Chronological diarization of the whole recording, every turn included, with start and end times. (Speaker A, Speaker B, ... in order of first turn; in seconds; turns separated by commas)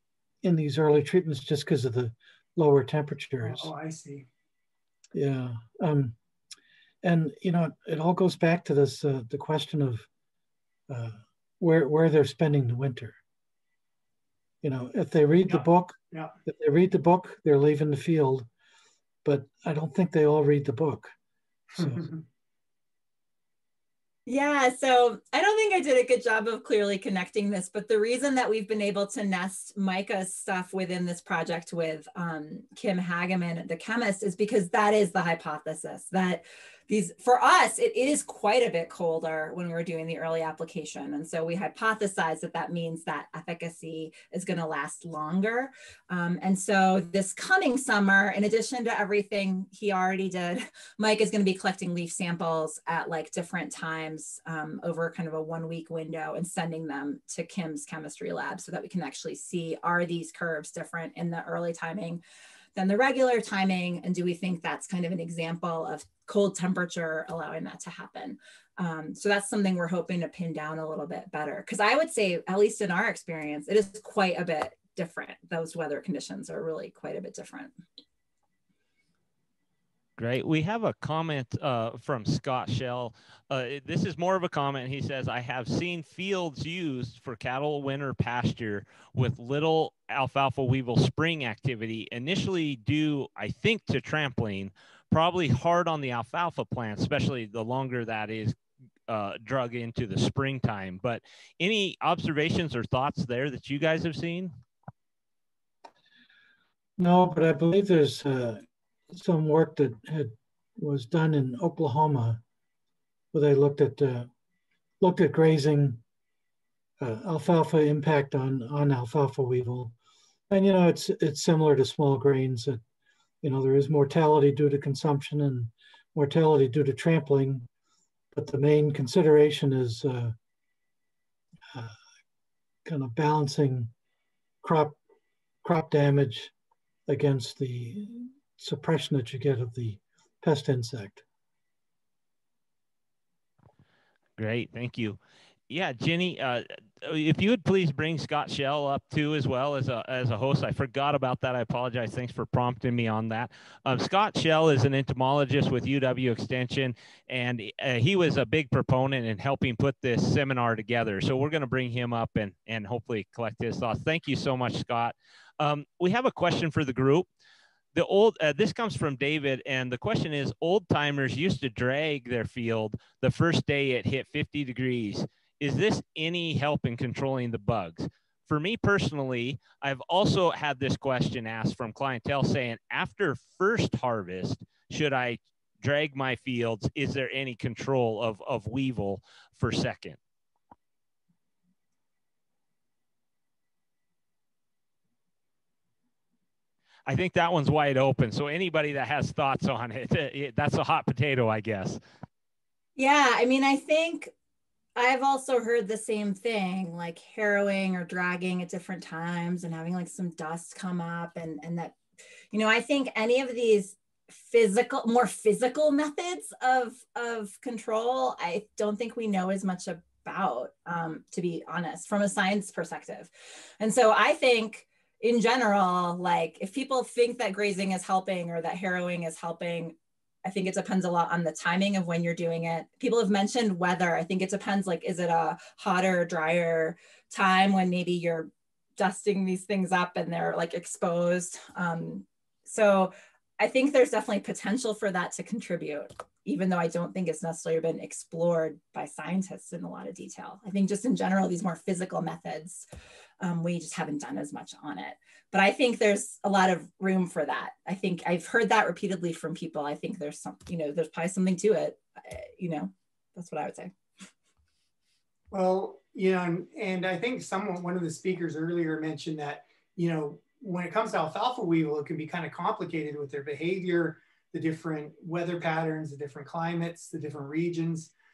Speaker A: 0.4-3.7, Speaker B: 3.4-4.3, Speaker A: 5.1-6.2, Speaker A: 7.0-10.1, Speaker A: 10.9-13.2, Speaker A: 14.6-18.5, Speaker B: 15.5-16.3, Speaker A: 19.2-21.1, Speaker B: 21.7-22.2, Speaker A: 21.8-22.1, Speaker C: 24.3-62.2, Speaker C: 62.8-77.8, Speaker D: 80.2-104.5, Speaker A: 107.0-108.6, Speaker A: 109.1-112.4, Speaker A: 113.3-114.3, Speaker A: 115.0-116.0, Speaker A: 117.0-120.0, Speaker A: 120.5-122.8, Speaker A: 123.4-127.7, Speaker A: 128.3-130.3, Speaker A: 132.8-133.9, Speaker A: 134.6-135.0, Speaker A: 135.6-136.5, Speaker A: 137.1-141.2, Speaker D: 144.4-167.3, Speaker D: 167.9-190.2, Speaker D: 197.1-202.0, Speaker C: 203.0-204.3, Speaker C: 205.0-212.0, Speaker C: 212.5-252.9, Speaker C: 253.4-263.9, Speaker B: 265.5-278.1